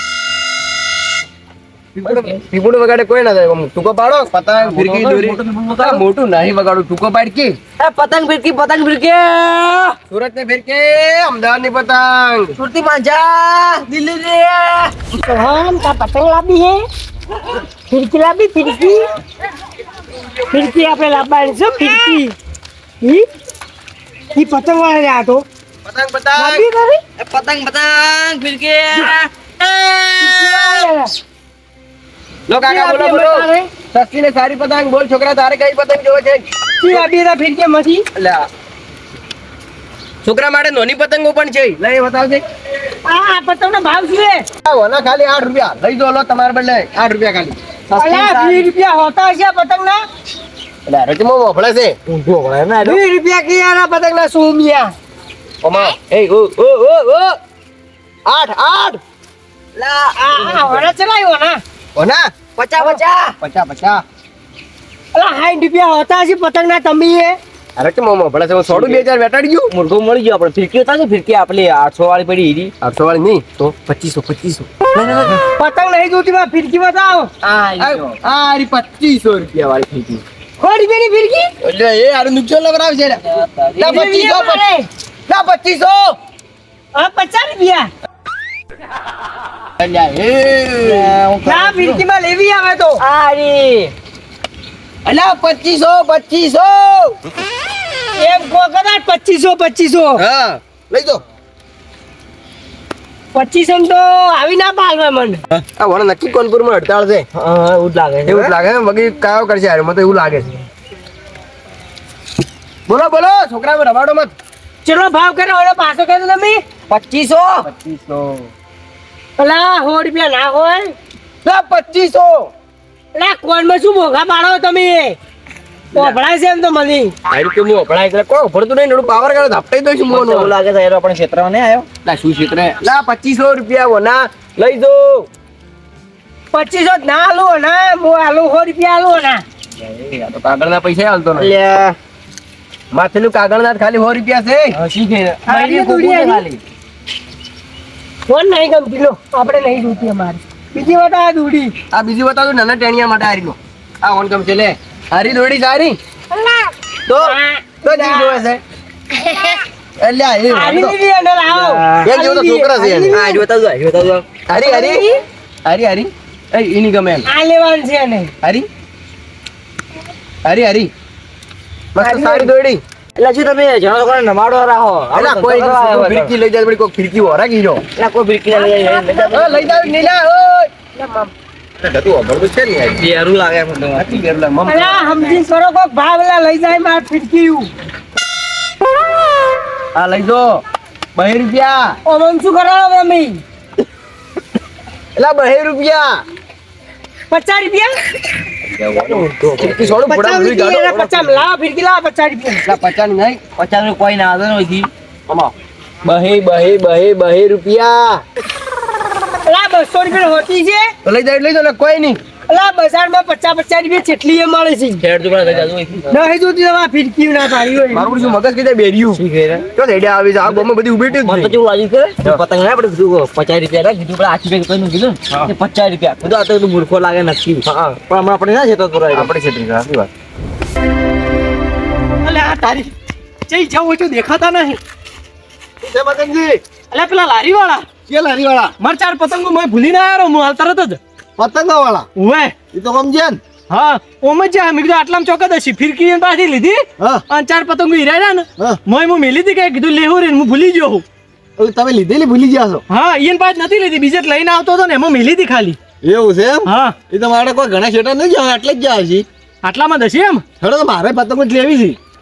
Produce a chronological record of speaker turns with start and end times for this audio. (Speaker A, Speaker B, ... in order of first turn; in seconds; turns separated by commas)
Speaker A: 2.0-2.4, Speaker B: 2.0-7.6, Speaker A: 4.6-6.0, Speaker A: 7.8-10.0, Speaker B: 10.1-12.5, Speaker A: 12.6-14.9, Speaker C: 15.2-16.8, Speaker C: 17.9-19.1, Speaker C: 20.5-22.4, Speaker C: 23.0-23.2, Speaker C: 24.3-25.4, Speaker B: 25.8-26.6, Speaker C: 26.4-27.0, Speaker A: 27.2-30.6, Speaker C: 30.1-31.1, Speaker B: 32.5-37.0, Speaker C: 32.6-33.7, Speaker C: 36.8-38.0, Speaker B: 38.1-38.5, Speaker B: 40.2-42.4, Speaker C: 43.0-44.5, Speaker B: 44.6-47.6, Speaker A: 47.9-48.7, Speaker C: 47.9-50.0, Speaker B: 50.9-52.0, Speaker A: 52.1-53.0, Speaker C: 52.8-54.9, Speaker B: 55.6-57.4, Speaker B: 58.2-59.0, Speaker A: 59.8-60.9, Speaker C: 60.2-61.6, Speaker B: 62.0-64.0, Speaker A: 62.6-63.4, Speaker C: 65.1-67.4, Speaker B: 67.8-69.7, Speaker A: 68.7-69.0, Speaker A: 69.7-72.7, Speaker B: 72.8-75.4, Speaker A: 75.0-75.4, Speaker C: 75.6-77.3, Speaker A: 77.4-78.2, Speaker B: 77.5-80.2, Speaker C: 80.6-81.5, Speaker B: 81.6-83.2, Speaker A: 83.3-84.1, Speaker B: 83.8-84.6, Speaker C: 83.8-84.9, Speaker B: 85.3-86.2, Speaker C: 86.9-87.9, Speaker B: 89.8-91.2, Speaker A: 90.8-92.0, Speaker C: 91.4-93.0, Speaker A: 93.0-93.9, Speaker B: 95.0-97.1, Speaker C: 98.2-100.2, Speaker B: 100.2-101.2, Speaker C: 103.3-105.4, Speaker B: 105.8-107.2, Speaker A: 107.3-108.5, Speaker B: 108.3-110.5, Speaker B: 112.9-114.3, Speaker C: 114.8-116.6, Speaker A: 116.9-117.7, Speaker B: 117.6-118.5, Speaker C: 119.4-120.9, Speaker B: 121.4-122.5, Speaker C: 123.1-125.2, Speaker C: 125.9-127.1, Speaker B: 127.3-130.5, Speaker A: 130.1-131.9, Speaker B: 132.0-135.3, Speaker C: 136.5-139.4, Speaker B: 140.0-141.5, Speaker A: 141.3-141.9, Speaker B: 142.9-144.8, Speaker A: 144.7-146.6, Speaker C: 145.5-146.4, Speaker C: 148.3-151.7, Speaker B: 151.9-156.0, Speaker C: 156.3-158.4, Speaker B: 157.1-157.3, Speaker B: 157.8-158.6, Speaker C: 159.1-159.6, Speaker B: 160.0-161.0, Speaker C: 160.5-163.4, Speaker A: 161.5-162.1, Speaker B: 162.0-163.2, Speaker A: 163.1-164.3, Speaker B: 164.5-165.0, Speaker C: 164.5-165.2, Speaker B: 165.7-167.2, Speaker C: 167.2-168.3, Speaker B: 168.4-168.7, Speaker B: 170.4-170.9, Speaker B: 171.9-172.8, Speaker C: 172.0-172.3, Speaker A: 173.2-176.3, Speaker B: 175.1-177.8, Speaker A: 177.9-180.0, Speaker C: 178.7-179.9, Speaker B: 179.3-181.3, Speaker B: 181.8-183.0, Speaker A: 182.9-184.1, Speaker B: 183.9-185.3, Speaker C: 184.7-187.7, Speaker B: 189.9-190.6, Speaker B: 191.1-192.0, Speaker C: 192.0-193.4, Speaker B: 195.2-196.2, Speaker C: 197.3-198.0, Speaker A: 198.7-200.0, Speaker B: 199.1-201.4, Speaker C: 200.1-202.8, Speaker B: 202.7-203.4, Speaker A: 203.6-204.9, Speaker B: 206.0-208.2, Speaker C: 209.4-210.9, Speaker B: 211.0-212.2, Speaker C: 212.5-215.0, Speaker A: 215.0-216.1, Speaker C: 216.1-218.1, Speaker B: 217.9-219.2, Speaker A: 219.1-219.7, Speaker B: 219.7-221.5, Speaker A: 220.6-229.3, Speaker B: 229.1-230.1, Speaker D: 232.2-232.9, Speaker D: 233.5-234.8, Speaker E: 235.8-236.6, Speaker D: 236.9-237.8, Speaker E: 238.1-238.7, Speaker D: 238.8-241.0, Speaker E: 241.4-242.1, Speaker D: 242.2-242.6, Speaker E: 242.7-243.4, Speaker D: 243.7-251.0, Speaker E: 251.6-252.8, Speaker D: 252.9-255.8, Speaker E: 256.0-259.2, Speaker D: 256.6-257.0, Speaker D: 259.6-260.4, Speaker E: 260.6-262.0